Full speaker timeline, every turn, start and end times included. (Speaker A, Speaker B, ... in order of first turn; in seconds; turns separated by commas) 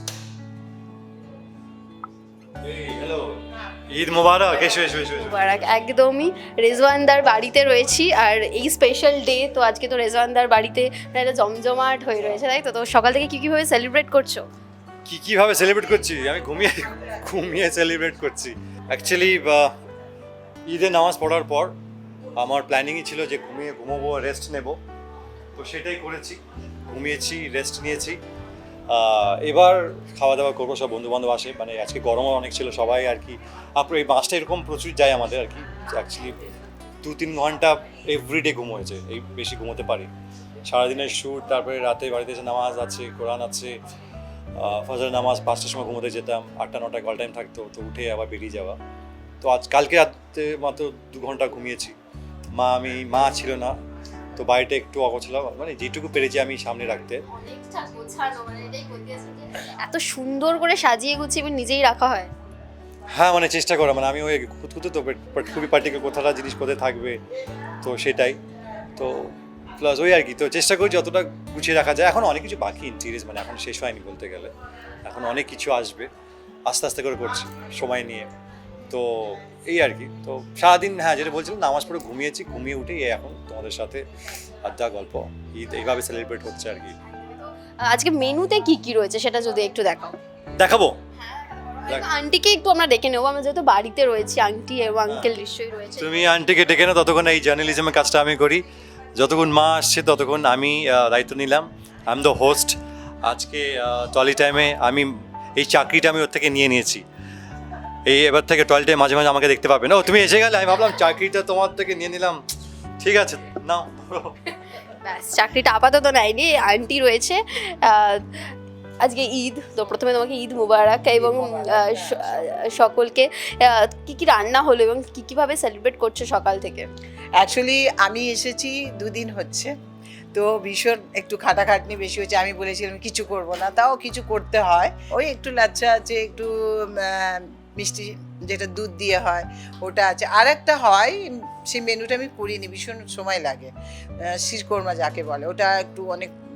Speaker A: 2.6-5.4, Speaker B: 5.1-14.5, Speaker A: 15.0-19.8, Speaker A: 20.7-21.8, Speaker A: 22.4-24.8, Speaker A: 25.6-28.2, Speaker A: 28.9-36.4, Speaker A: 37.0-40.1, Speaker A: 40.6-43.8, Speaker A: 44.6-48.8, Speaker A: 49.4-51.9, Speaker A: 52.5-53.7, Speaker A: 54.4-57.2, Speaker B: 57.3-62.3, Speaker A: 63.1-67.2, Speaker A: 67.8-68.4, Speaker A: 69.0-74.5, Speaker A: 75.0-76.1, Speaker A: 76.7-78.3, Speaker A: 78.9-84.0, Speaker A: 84.6-87.0, Speaker B: 87.1-90.2, Speaker A: 90.6-91.0, Speaker B: 91.7-96.2, Speaker A: 96.0-107.0, Speaker A: 108.0-112.4, Speaker A: 113.0-114.4, Speaker B: 114.8-118.2, Speaker B: 119.0-126.9, Speaker C: 121.1-122.6, Speaker C: 127.4-129.7, Speaker C: 130.3-143.7, Speaker C: 144.3-146.3